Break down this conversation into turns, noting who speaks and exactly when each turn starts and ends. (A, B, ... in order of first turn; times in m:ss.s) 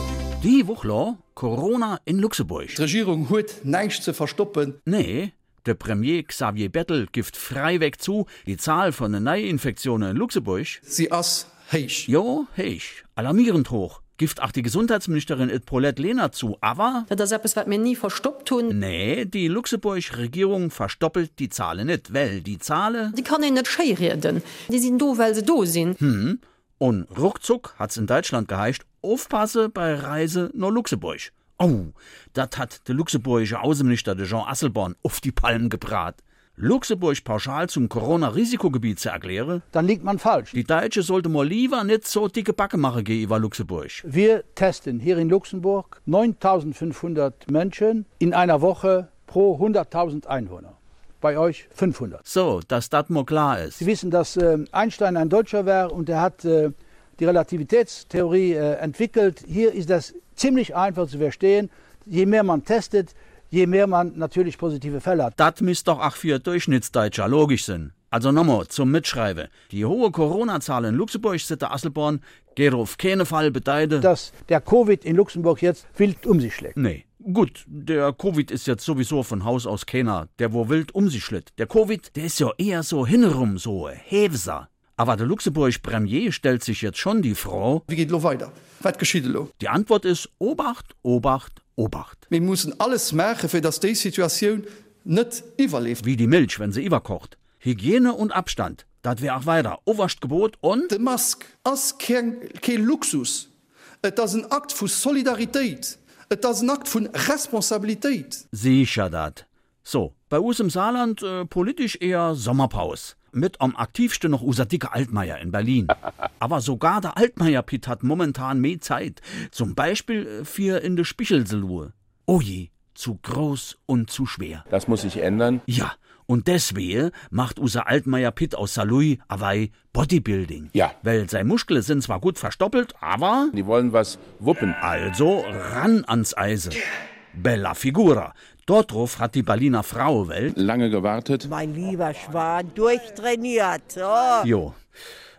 0:00.4-0:02.8 A
0:02.7-0:04.8 B
0:04.9-0:10.8 A
0:10.9-0:12.1 B
0:12.1-0:17.1 A
0:17.1-0:18.8 C
0:18.7-0:23.2 A
0:23.1-0:26.0 C
0:26.0-0:39.6 A
0:39.7-0:40.6 D
0:40.5-0:44.0 A
0:44.0-0:52.2 D
0:52.3-0:53.8 A
0:53.8-1:05.4 D
1:05.4-1:14.1 A
1:14.0-1:16.8 D
1:16.8-1:27.8 A
1:27.9-1:29.5 B
1:29.6-1:32.2 A
1:32.3-1:36.0 B
1:36.0-1:40.9 A
1:40.9-1:43.5 B
1:44.0-1:48.4 B
1:48.5-2:04.6 A
2:04.7-2:05.6 E
2:05.7-2:13.5 A
2:13.5-2:14.8 E
2:14.8-2:16.8 A
2:17.3-2:20.6 A
2:20.5-2:21.5 E
2:21.4-2:24.5 F
2:24.4-2:24.8 A